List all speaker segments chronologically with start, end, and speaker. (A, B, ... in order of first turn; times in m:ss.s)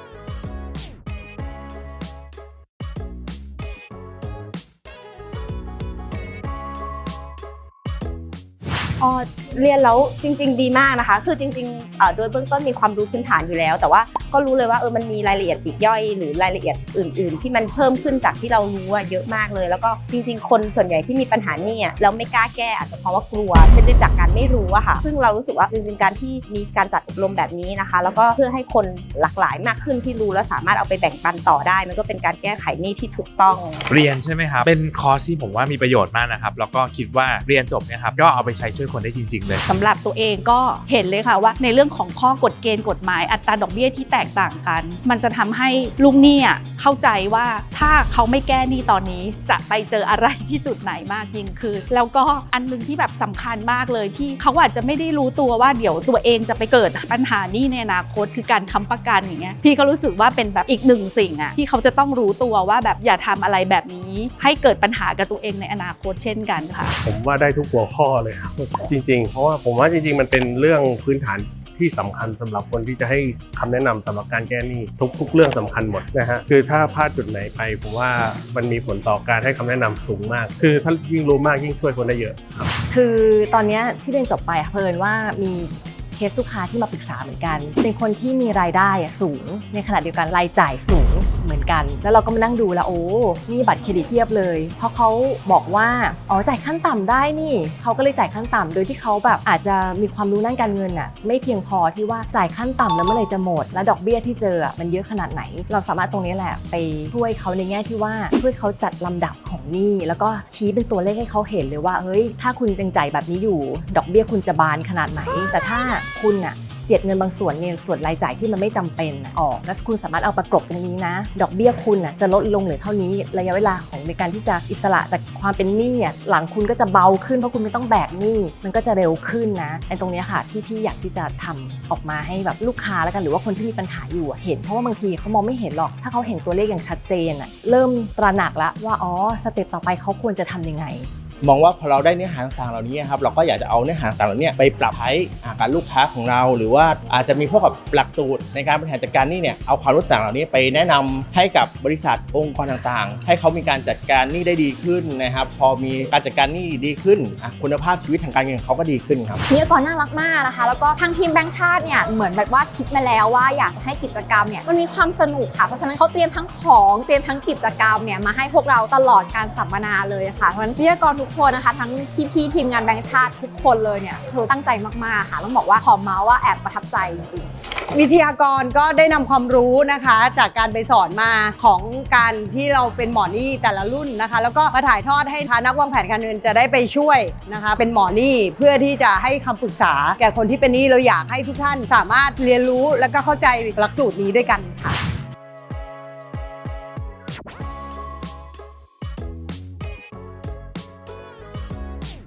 0:09.0-0:33.8 A
0:33.9-0:39.6 B
0:39.7-1:06.9 C
1:07.0-1:22.7 D
1:22.9-2:21.1 E
2:21.4-2:39.4 F
2:39.5-2:57.5 G
2:57.9-3:15.0 H